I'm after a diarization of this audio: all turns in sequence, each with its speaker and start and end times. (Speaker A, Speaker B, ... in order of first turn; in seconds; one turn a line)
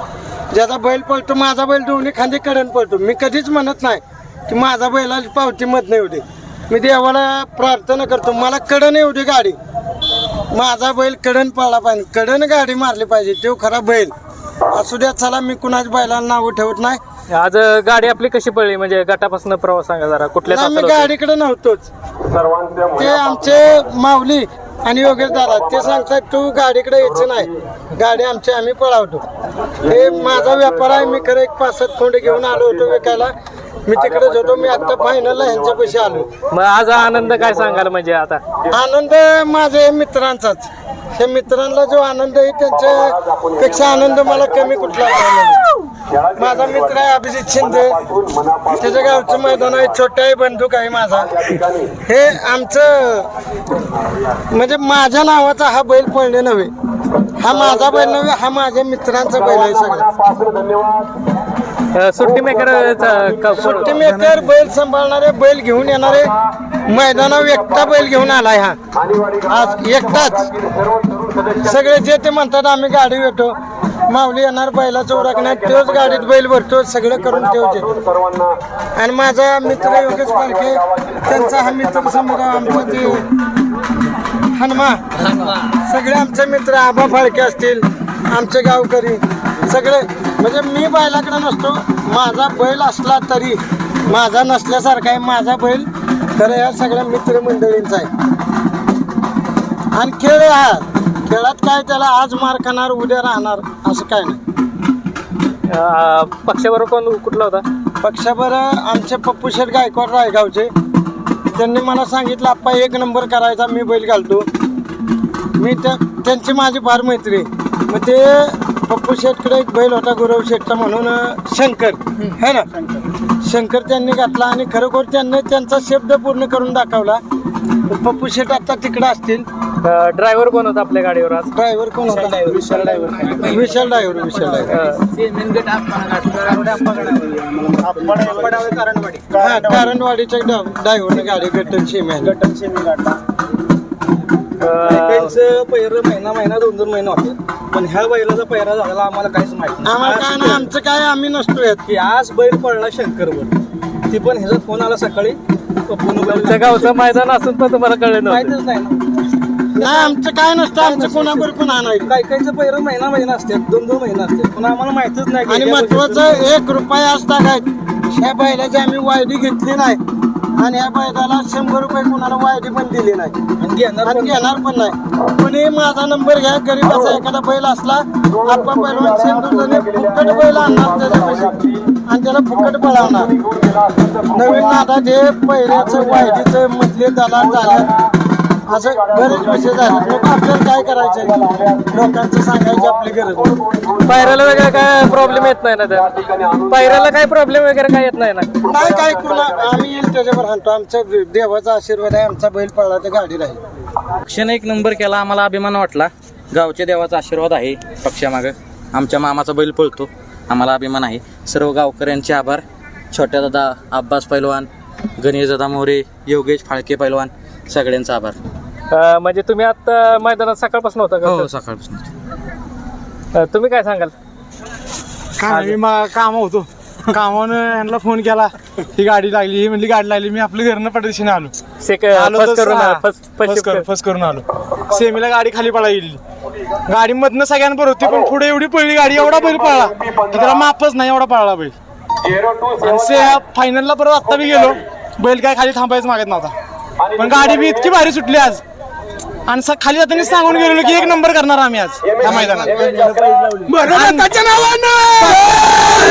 Speaker A: 0.5-9.6
Speaker A: 10.5-14.1
Speaker A: 14.7-17.0
Speaker B: 17.3-21.1
Speaker A: 20.5-21.9
Speaker A: 22.8-29.2
Speaker A: 29.8-33.3
Speaker A: 33.9-36.3
Speaker B: 36.5-38.4
Speaker A: 38.7-45.6
Speaker A: 46.3-53.3
Speaker A: 54.5-56.7
Speaker A: 57.4-60.4
Speaker B: 61.9-63.9
Speaker A: 63.5-66.3
Speaker A: 66.8-68.8
Speaker A: 69.4-70.5
Speaker A: 71.5-73.5
Speaker A: 74.1-78.0
Speaker A: 79.0-83.3
Speaker A: 84.5-98.1
Speaker A: 99.9-104.4
Speaker B: 105.7-107.6
Speaker A: 108.0-110.7
Speaker A: 111.5-114.5
Speaker A: 115.6-122.7
Speaker A: 123.4-127.2
Speaker A: 127.9-129.5
Speaker B: 129.8-131.5
Speaker A: 131.5-132.6
Speaker C: 132.1-133.6
Speaker A: 133.4-134.7
Speaker B: 134.7-135.0
Speaker C: 136.2-139.9
Speaker A: 139.4-142.3
Speaker C: 142.2-143.2
Speaker B: 144.6-145.3
Speaker C: 144.8-150.7
Speaker A: 149.8-151.8
Speaker C: 151.8-153.5
Speaker C: 154.1-156.9
Speaker B: 156.2-158.5
Speaker C: 158.2-159.0
Speaker C: 159.8-160.2
Speaker A: 159.8-162.1
Speaker C: 160.8-161.5
Speaker C: 162.0-166.4
Speaker A: 165.4-170.0
Speaker A: 170.6-173.3
Speaker C: 173.6-174.4
Speaker A: 174.0-183.3
Speaker A: 184.2-187.9
Speaker A: 188.7-193.6
Speaker B: 194.0-198.5
Speaker A: 198.6-203.6
Speaker D: 204.2-218.4
Speaker B: 218.9-221.5
Speaker D: 221.3-222.1
Speaker B: 223.3-224.1
Speaker E: 225.4-231.5
Speaker B: 225.5-225.8
Speaker B: 231.8-233.8
Speaker E: 232.1-236.2
Speaker E: 236.9-241.7
Speaker E: 242.7-246.5
Speaker E: 247.1-248.6
Speaker E: 249.5-255.5
Speaker C: 252.9-253.8